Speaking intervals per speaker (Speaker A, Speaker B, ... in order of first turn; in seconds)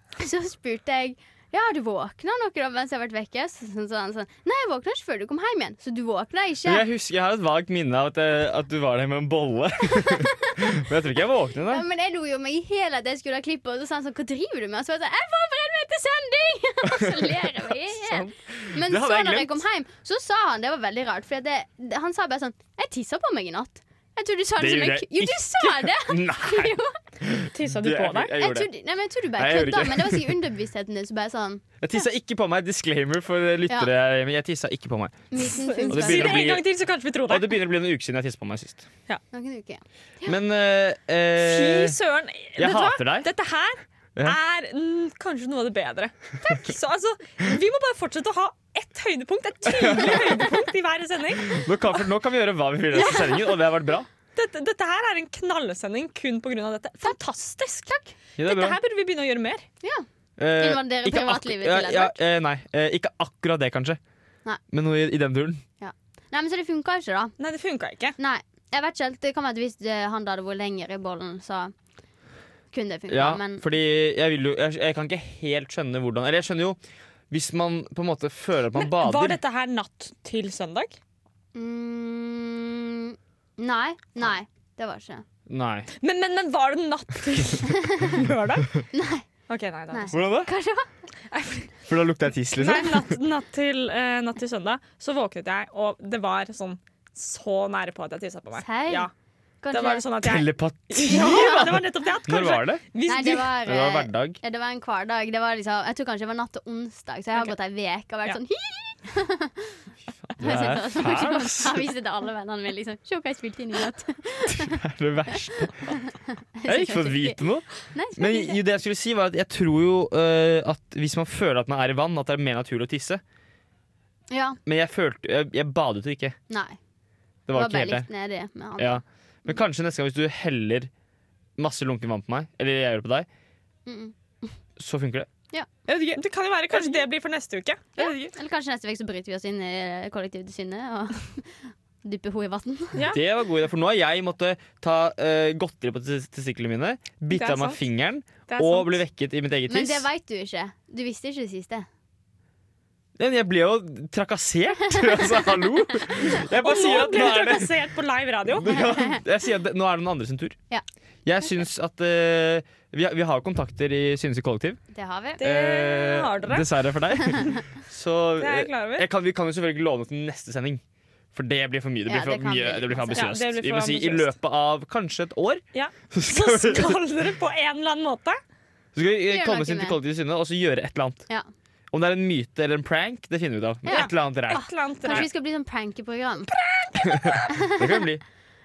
Speaker A: 0.2-6.8, 10.0-10.6, 11.7-26.9, 28.4-31.6, 35.3-36.5, 39.3-40.3, 60.6-62.1, 65.8-67.3, 68.2-71.7, 72.7-73.6, 81.5-85.2, 88.9-89.2, 89.9-90.8, 98.6-99.1, 99.6-100.0, 101.1-101.6, 103.0-109.8, 110.4-114.8, 116.6-118.6, 124.3-124.6, 126.5-126.8, 127.5-129.0, 133.8-134.5, 138.0-141.5, 142.0-143.0, 149.7-151.8, 155.0-155.4, 164.9-165.4, 172.1-173.3, 179.3-180.0, 183.8-186.5, 187.5-188.0
Speaker B: 6.6-11.8, 16.8-19.6, 24.6-28.7, 29.4-30.3, 31.8-35.3, 35.9-36.6, 37.3-38.8, 40.2-42.0, 42.6-43.3, 49.6-50.4, 51.4-54.1, 58.4-58.8, 60.4-64.0, 64.7-65.6, 73.1-76.8, 77.3-79.4, 85.5-85.9, 90.1-90.5, 91.9-93.2, 100.2-102.8, 103.6-104.4, 110.3-111.9, 114.5-115.9, 116.7-123.2, 124.7-126.3, 127.5-128.1, 128.8-130.9, 131.6-133.3, 134.8-135.3, 135.9-136.2, 138.0-138.3, 143.1-150.1, 153.2-157.7, 158.6-160.6, 161.2-164.8, 165.4-170.8, 171.3-177.0, 178.9-181.2, 181.9-185.3, 187.0-188.2
Speaker C: 27.5-28.3, 35.4-37.5, 41.4-51.6, 52.9-53.5, 54.3-59.6, 67.4-68.2, 78.8-81.0, 86.0-88.7, 89.5-90.1, 91.3-91.7, 92.6-99.1, 99.7-103.5, 136.1-138.2, 142.9-143.2, 147.3-147.8, 148.5-149.0, 156.5-158.7, 165.4-166.7, 168.4-169.1, 173.1-174.3, 175.7-178.4, 183.9-185.3, 186.5-187.4